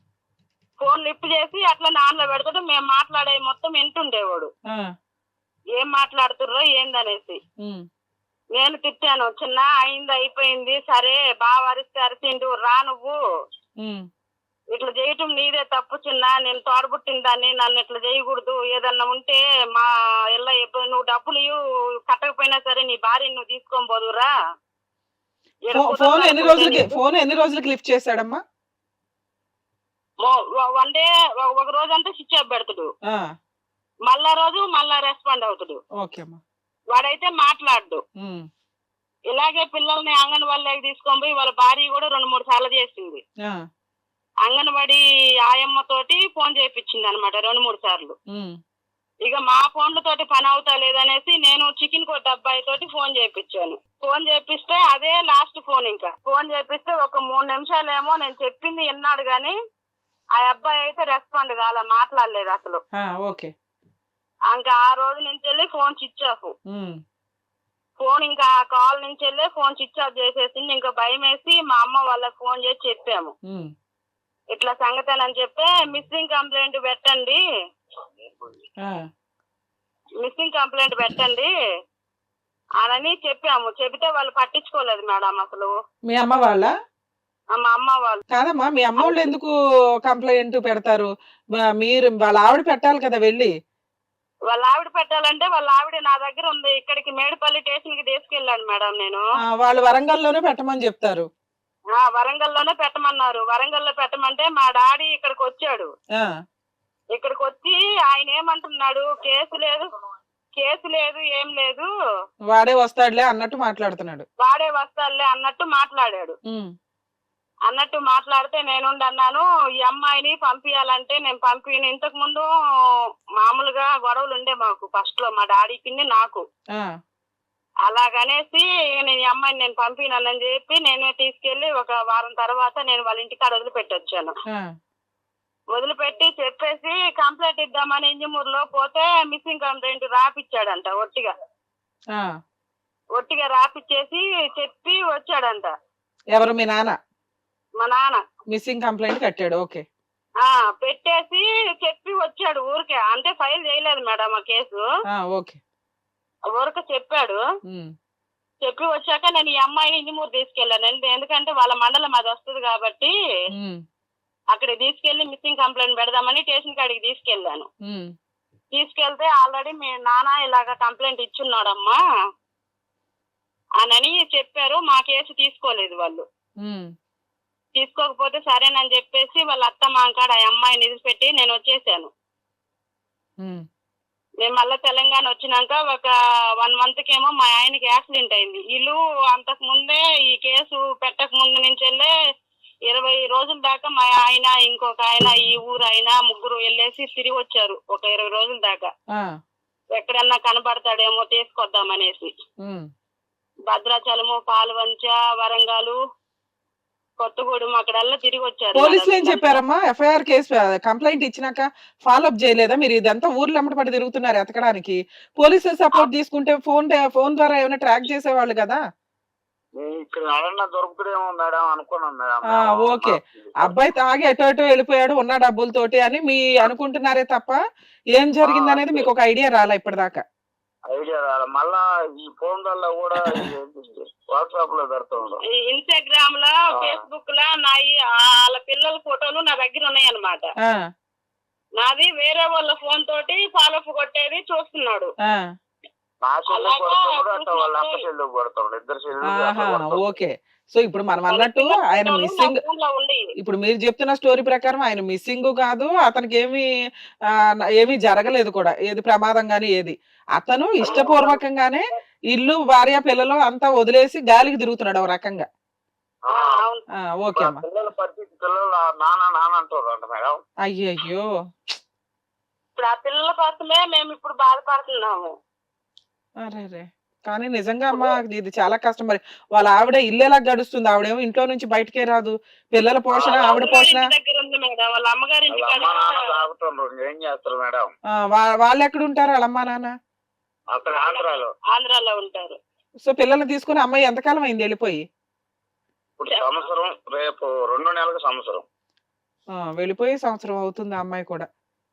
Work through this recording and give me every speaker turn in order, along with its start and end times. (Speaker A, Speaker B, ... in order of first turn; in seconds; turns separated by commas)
Speaker A: 0.8-4.5, Speaker A: 5.8-7.4, Speaker A: 8.5-13.2, Speaker A: 14.7-24.3, Speaker A: 25.7-26.9, Speaker B: 25.7-28.4, Speaker A: 30.2-32.9, Speaker A: 34.1-35.8, Speaker B: 36.0-36.4, Speaker A: 36.9-38.0, Speaker A: 39.3-43.2, Speaker A: 44.5-48.2, Speaker A: 49.2-59.6, Speaker A: 60.4-62.8, Speaker B: 63.0-63.5, Speaker A: 64.5-66.5, Speaker B: 66.7-67.0, Speaker A: 68.0-73.3, Speaker A: 74.5-77.4, Speaker A: 80.2-81.5, Speaker A: 82.8-85.7, Speaker B: 86.1-86.7, Speaker A: 87.5-88.2, Speaker B: 88.3-89.5, Speaker A: 89.0-89.3, Speaker B: 90.1-91.1, Speaker B: 91.8-93.5, Speaker A: 94.5-99.2, Speaker B: 99.6-101.3, Speaker A: 102.0-105.9, Speaker A: 107.1-109.9, Speaker A: 110.5-111.9, Speaker B: 112.5-114.3, Speaker A: 114.4-116.4, Speaker A: 117.7-122.5, Speaker A: 123.4-126.4, Speaker A: 127.9-134.3, Speaker A: 135.7-141.3, Speaker A: 143.2-145.7, Speaker B: 146.3-147.0, Speaker A: 147.8-148.2, Speaker B: 148.5-149.8, Speaker A: 150.4-154.8, Speaker B: 155.1-155.6, Speaker A: 156.5-157.4, Speaker A: 158.6-163.1, Speaker A: 164.5-167.7, Speaker A: 168.7-172.0, Speaker A: 173.8-176.3, Speaker A: 177.8-182.1, Speaker A: 184.4-192.1, Speaker A: 192.9-198.9, Speaker A: 199.9-202.3, Speaker A: 203.7-206.0, Speaker A: 207.2-209.6, Speaker B: 208.8-218.8, Speaker C: 219.8-223.8, Speaker B: 222.5-227.6, Speaker B: 228.2-230.2, Speaker C: 228.4-229.1, Speaker C: 230.9-235.4, Speaker A: 235.6-240.5, Speaker C: 236.7-237.0, Speaker A: 241.8-245.1, Speaker C: 246.2-250.2, Speaker A: 246.5-248.0, Speaker B: 249.3-252.6, Speaker A: 251.3-253.2, Speaker B: 253.4-256.7, Speaker B: 257.8-265.5, Speaker A: 260.9-261.4, Speaker C: 266.3-266.5, Speaker A: 266.3-266.8, Speaker B: 267.2-267.6, Speaker C: 267.3-270.4, Speaker B: 270.7-271.3, Speaker A: 272.8-275.3, Speaker B: 276.4-284.1, Speaker C: 283.1-283.8, Speaker A: 283.3-286.0, Speaker C: 285.5-287.9, Speaker B: 288.3-289.9, Speaker C: 290.7-291.5, Speaker A: 291.1-292.6, Speaker B: 293.1-295.0, Speaker C: 296.2-298.6, Speaker B: 299.6-301.5